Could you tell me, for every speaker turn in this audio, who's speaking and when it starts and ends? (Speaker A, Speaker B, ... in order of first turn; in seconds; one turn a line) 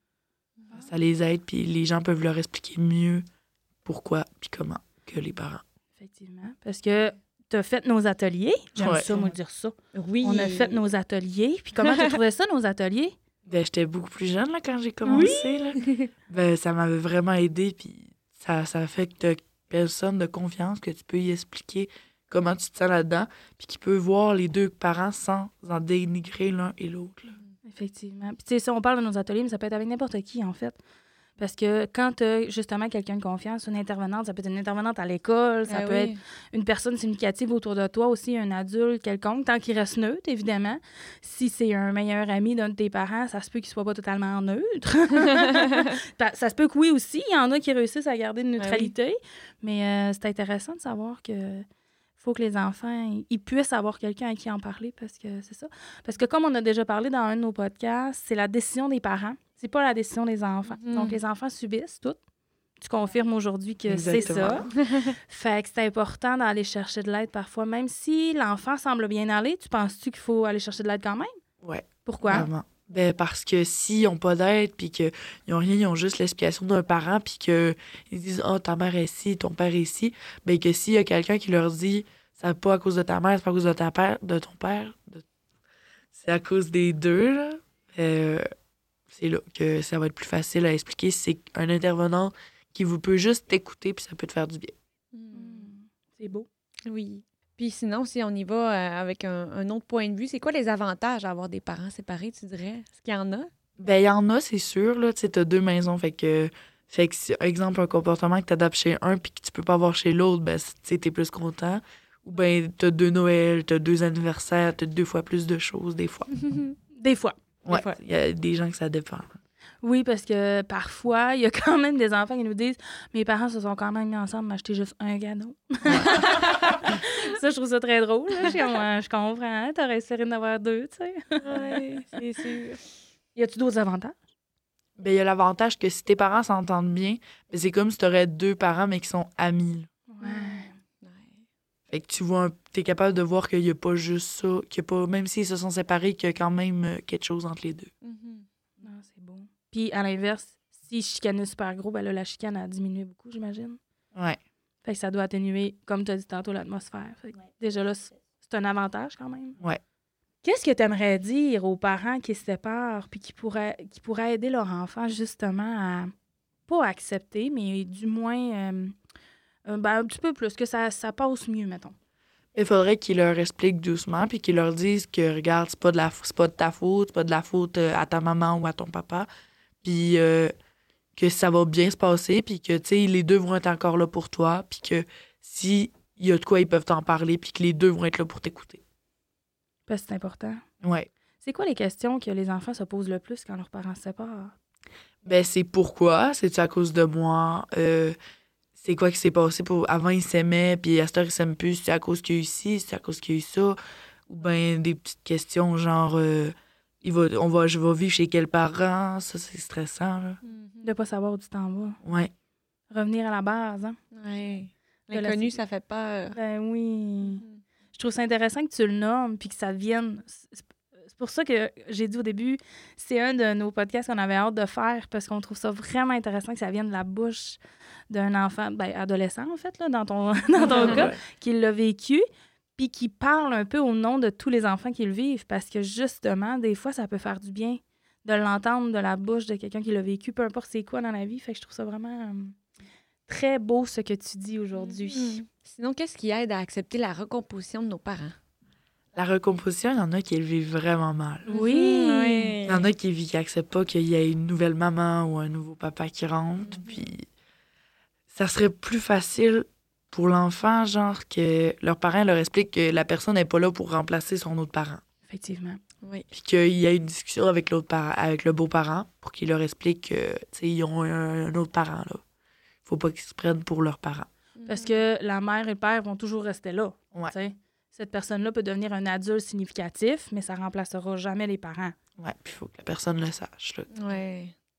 Speaker A: 0.7-3.2
Speaker A: 3.8-5.6
Speaker B: 6.0-13.1
Speaker A: 8.8-9.3
Speaker C: 9.9-10.8
Speaker C: 11.8-12.2
Speaker A: 13.5-27.4
Speaker B: 15.0-15.7
Speaker C: 15.3-15.9
Speaker B: 27.6-30.8
Speaker B: 31.4-51.6
Speaker C: 35.7-36.2
Speaker C: 48.6-48.9
Speaker B: 52.2-62.2
Speaker C: 60.7-61.2
Speaker B: 62.8-64.7
Speaker A: 63.9-64.7
Speaker B: 65.3-71.3
Speaker A: 71.6-85.2
Speaker B: 72.0-72.5
Speaker A: 86.1-88.4
Speaker A: 89.1-94.7
Speaker C: 95.1-95.7
Speaker B: 95.3-96.5
Speaker C: 96.8-103.5
Speaker A: 103.8-116.3
Speaker B: 116.9-117.3
Speaker A: 117.6-119.4
Speaker C: 117.7-118.0
Speaker B: 119.8-131.8
Speaker A: 125.8-126.1
Speaker C: 131.4-132.9
Speaker B: 133.3-134.2
Speaker A: 135.0-139.9
Speaker B: 140.1-140.7
Speaker C: 140.2-141.4
Speaker A: 141.9-147.9
Speaker C: 148.0-148.4
Speaker B: 148.8-153.8
Speaker B: 154.8-159.6
Speaker B: 160.4-166.1
Speaker B: 166.7-168.9
Speaker B: 169.7-171.9
Speaker A: 172.5-179.3
Speaker A: 179.8-180.5
Speaker A: 181.2-188.8
Speaker B: 189.9-190.6
Speaker A: 190.8-191.1
Speaker B: 191.4-194.5
Speaker A: 195.2-198.2
Speaker A: 198.8-210.4
Speaker C: 210.4-210.9
Speaker B: 210.8-212.0
Speaker A: 212.0-212.3
Speaker B: 212.9-213.9
Speaker C: 214.1-216.4
Speaker B: 215.1-215.6
Speaker B: 216.3-232.2
Speaker C: 217.2-217.6
Speaker C: 230.7-231.1
Speaker A: 230.8-231.2
Speaker B: 232.8-242.5
Speaker B: 243.3-245.4
Speaker C: 244.7-248.3
Speaker A: 249.1-251.4
Speaker B: 251.5-252.6
Speaker C: 251.5-252.9
Speaker A: 252.7-257.2
Speaker A: 258.3-265.0
Speaker B: 265.3-265.8
Speaker A: 266.3-272.2
Speaker A: 272.8-274.3
Speaker C: 274.6-275.0
Speaker B: 274.7-281.9
Speaker A: 282.2-283.9
Speaker C: 283.9-284.5